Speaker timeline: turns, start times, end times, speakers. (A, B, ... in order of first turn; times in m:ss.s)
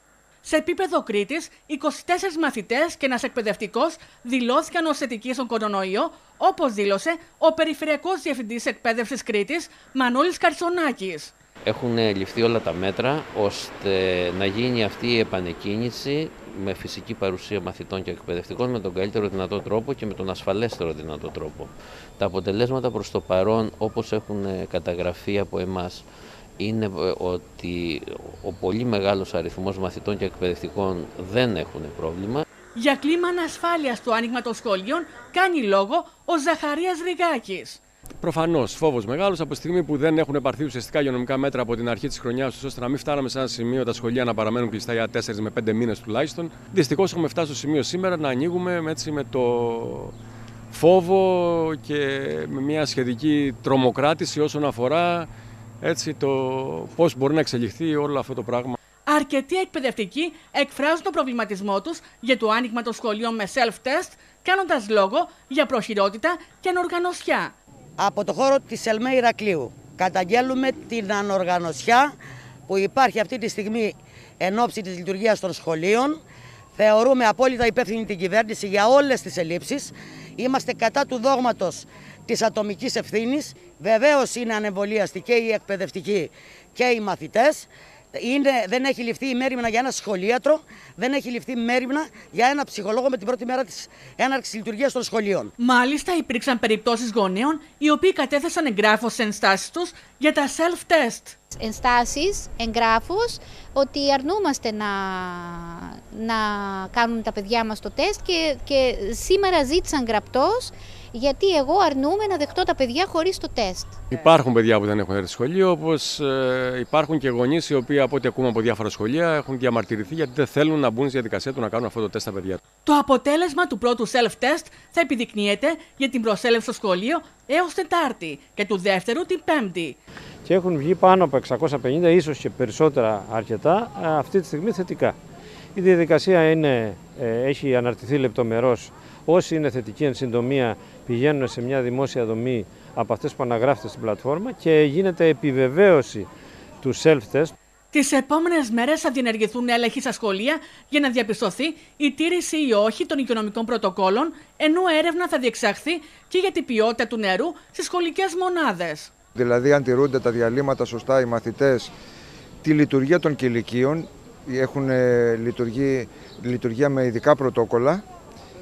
0:00.4-0:11.4 A
0:11.6-0:26.0 B
0:26.6-0:32.4 B
0:32.8-0:37.8 A
0:38.2-0:50.1 C
0:50.7-0:55.3 C
0:55.8-0:58.8 C
0:59.1-1:07.6 A
1:08.0-1:12.2 D
1:12.7-1:16.2 D
1:16.8-1:35.5 D
1:35.6-1:41.4 A
1:41.6-1:54.0 E
1:54.1-2:02.6 C
2:02.8-2:10.0 A
2:10.4-2:15.2 F
2:15.8-2:26.3 F
2:26.8-2:27.5 F
2:27.9-2:39.1 A
2:39.4-2:41.9 G
2:42.6-2:48.0 G